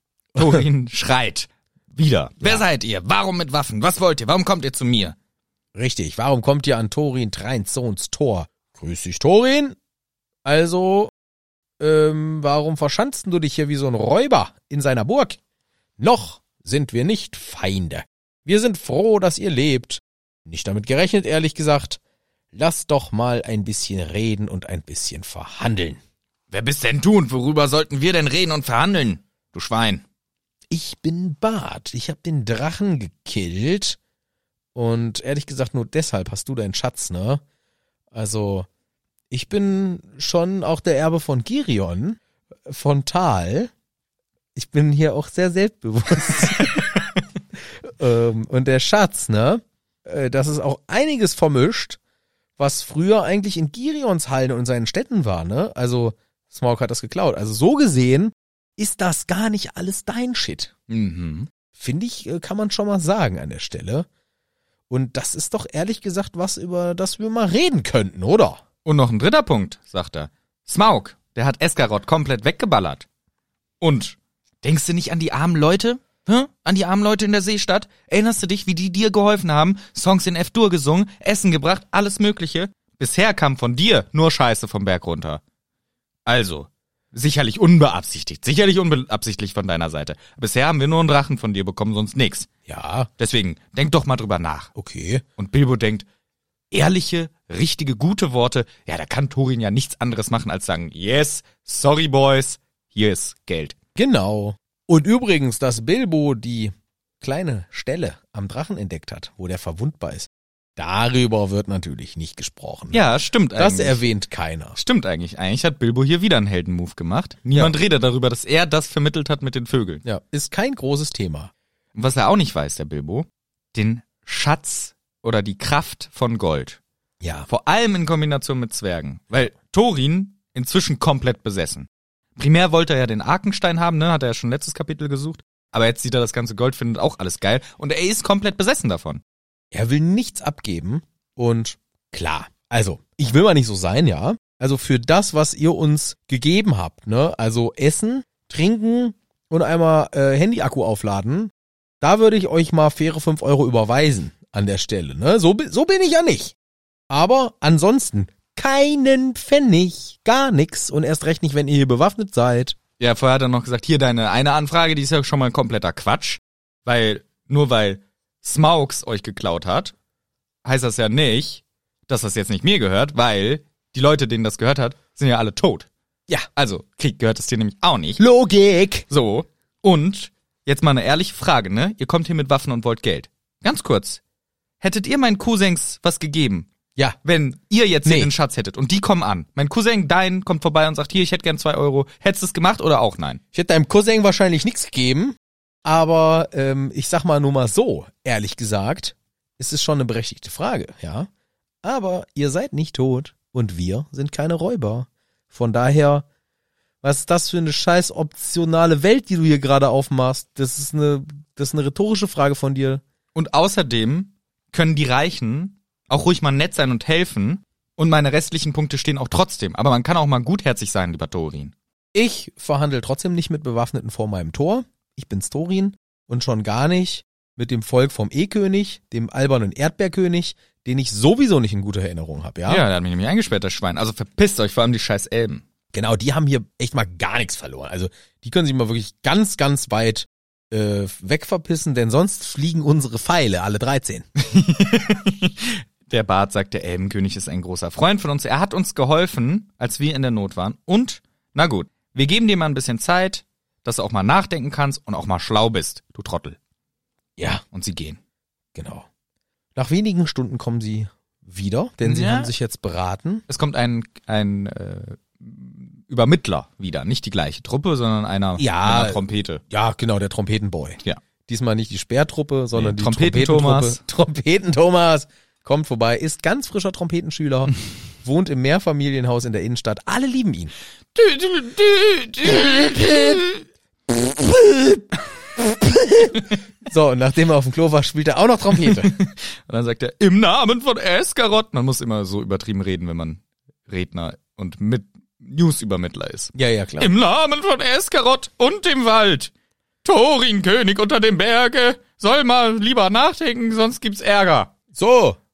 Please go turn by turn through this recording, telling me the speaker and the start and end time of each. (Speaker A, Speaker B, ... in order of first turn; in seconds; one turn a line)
Speaker A: 0.3-5.2
Speaker B: 0.4-0.7
Speaker B: 5.8-9.8
Speaker B: 10.4-11.1
Speaker B: 11.8-15.4
Speaker B: 16.0-22.0
Speaker B: 22.5-26.0
Speaker A: 26.5-30.0
Speaker B: 30.7-34.0
Speaker B: 34.8-37.4
Speaker B: 38.1-38.7
Speaker B: 39.3-43.7
Speaker B: 44.6-47.0
Speaker B: 47.8-52.0
Speaker B: 52.6-60.7
Speaker A: 60.9-61.5
Speaker B: 61.7-64.1
Speaker B: 64.9-68.6
Speaker A: 68.8-73.1
Speaker A: 73.8-85.4
Speaker A: 86.3-92.5
Speaker B: 92.7-93.1
Speaker A: 93.2-94.7
Speaker B: 94.8-95.2
Speaker A: 95.4-96.1
Speaker A: 96.7-103.8
Speaker B: 104.0-113.0
Speaker A: 112.9-114.0
Speaker B: 113.6-114.8
Speaker A: 114.8-120.0
Speaker B: 120.0-121.5
Speaker A: 122.0-126.8
Speaker B: 127.2-127.5
Speaker A: 127.5-139.2
Speaker B: 139.7-156.6
Speaker B: 157.1-162.8
Speaker A: 163.0-169.9
Speaker A: 170.6-175.9
Speaker A: 176.6-178.2
Speaker B: 178.2-179.1
Speaker A: 179.1-184.2
Speaker A: 184.8-186.7
Speaker A: 187.2-193.4
Speaker B: 188.1-188.3
Speaker B: 193.5-201.3
Speaker B: 201.8-206.3
Speaker B: 207.0-213.0
Speaker A: 213.3-221.7
Speaker B: 222.1-232.8
Speaker A: 232.7-235.6
Speaker B: 235.9-244.3
Speaker A: 244.4-256.6
Speaker B: 257.4-257.6
Speaker A: 257.7-258.2
Speaker B: 258.8-259.1
Speaker B: 259.8-263.4
Speaker A: 262.0-262.5
Speaker A: 263.5-269.6
Speaker B: 268.6-280.7
Speaker A: 272.8-274.0
Speaker A: 281.1-283.6
Speaker B: 284.1-289.2
Speaker A: 288.8-299.5
Speaker B: 296.6-297.1
Speaker A: 300.0-304.7
Speaker B: 304.9-305.4